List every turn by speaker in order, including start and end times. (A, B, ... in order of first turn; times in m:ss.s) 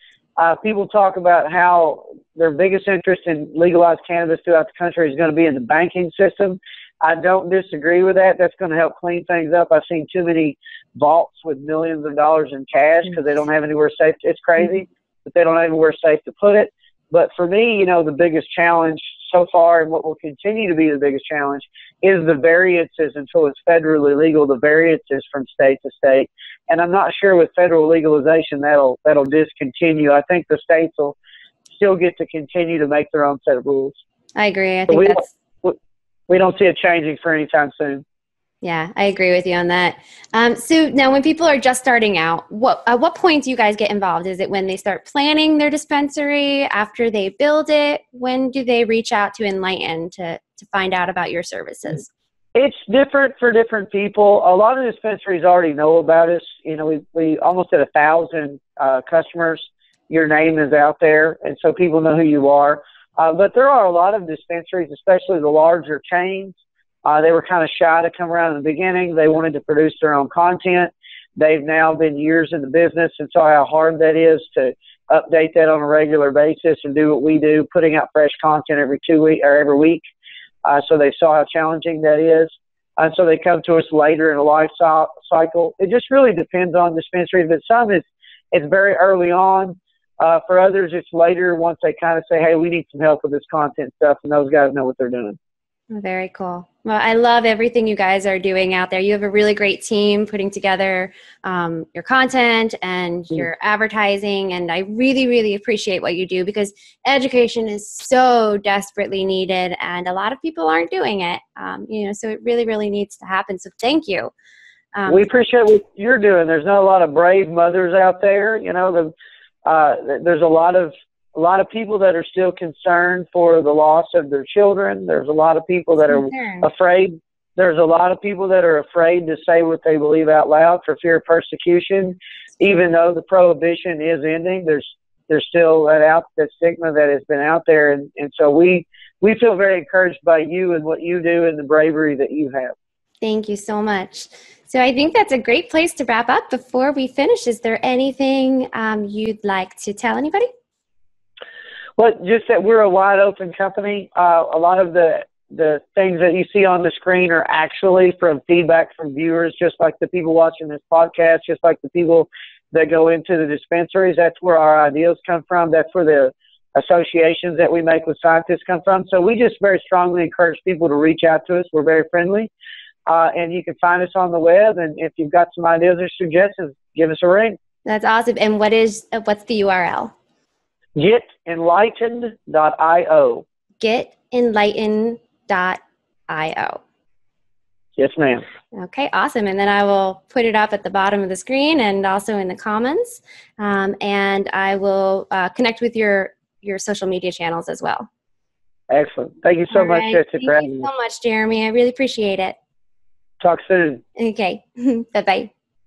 0:00.4-0:31.2 A
0:31.7-0:34.0 A
0:34.4-0:35.3 B
0:34.9-0:35.8 A
0:36.3-0:38.0 A
0:38.6-0:52.1 B
0:52.6-1:20.0 A
1:20.6-1:35.4 A
1:35.9-1:54.3 B
1:54.9-1:55.2 B
1:55.1-1:59.1 A
1:59.6-2:22.7 A
2:06.1-2:06.6 B
2:23.2-2:30.5 B
2:32.0-2:52.5 A
2:53.1-2:57.6 A
2:57.8-3:00.1 B
3:01.0-3:03.4 A
3:03.8-3:06.8 B
3:08.0-3:08.4 A
3:08.7-3:18.1 B
3:18.9-3:20.9 A
3:19.7-3:22.6 B
3:23.4-3:24.0 A
3:24.2-3:25.5 B